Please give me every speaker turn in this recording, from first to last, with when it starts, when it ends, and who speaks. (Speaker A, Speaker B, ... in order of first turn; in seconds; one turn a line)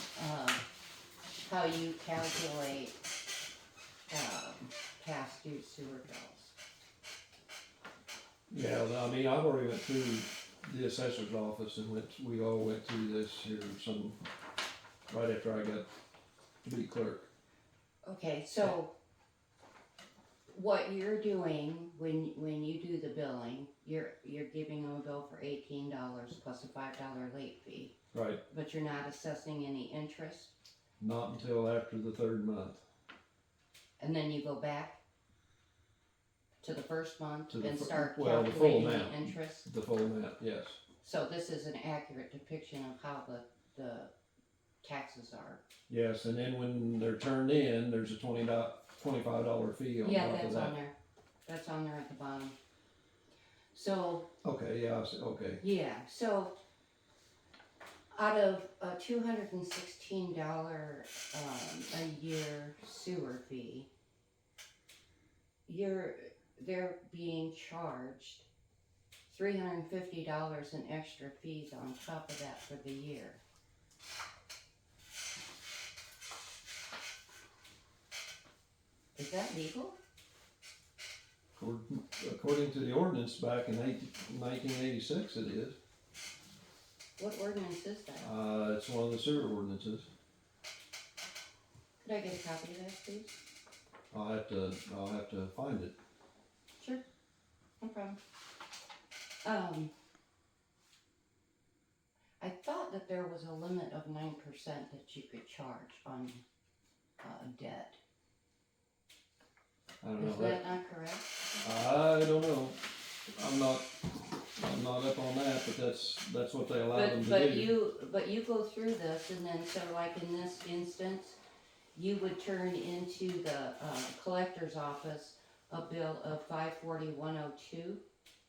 Speaker A: 0.1-0.6
Speaker A: 1.4-3.0
Speaker A: 4.1-6.5
Speaker B: 8.5-14.2
Speaker B: 15.1-15.8
Speaker B: 16.6-17.3
Speaker A: 18.0-18.9
Speaker A: 20.5-27.9
Speaker B: 28.1-28.4
Speaker A: 28.5-30.5
Speaker B: 31.0-32.8
Speaker A: 34.0-35.0
Speaker A: 36.6-39.6
Speaker B: 37.5-40.8
Speaker A: 41.0-44.1
Speaker A: 44.8-45.6
Speaker B: 45.9-50.7
Speaker A: 50.0-50.9
Speaker A: 51.5-52.5
Speaker A: 53.7-54.2
Speaker B: 54.4-55.6
Speaker A: 55.6-56.5
Speaker A: 58.1-63.9
Speaker A: 65.7-68.5
Speaker A: 69.3-73.4
Speaker A: 79.2-80.0
Speaker B: 81.5-85.8
Speaker A: 87.2-88.3
Speaker B: 88.2-90.1
Speaker A: 92.0-93.4
Speaker B: 94.1-95.9
Speaker A: 97.8-98.2
Speaker A: 99.4-99.9
Speaker A: 102.4-106.4
Speaker A: 107.2-108.0
Speaker B: 110.0-110.6
Speaker A: 110.2-111.3
Speaker B: 111.6-112.8
Speaker B: 113.3-113.9
Speaker B: 114.6-117.7
Speaker A: 116.9-121.4
Speaker A: 121.9-128.0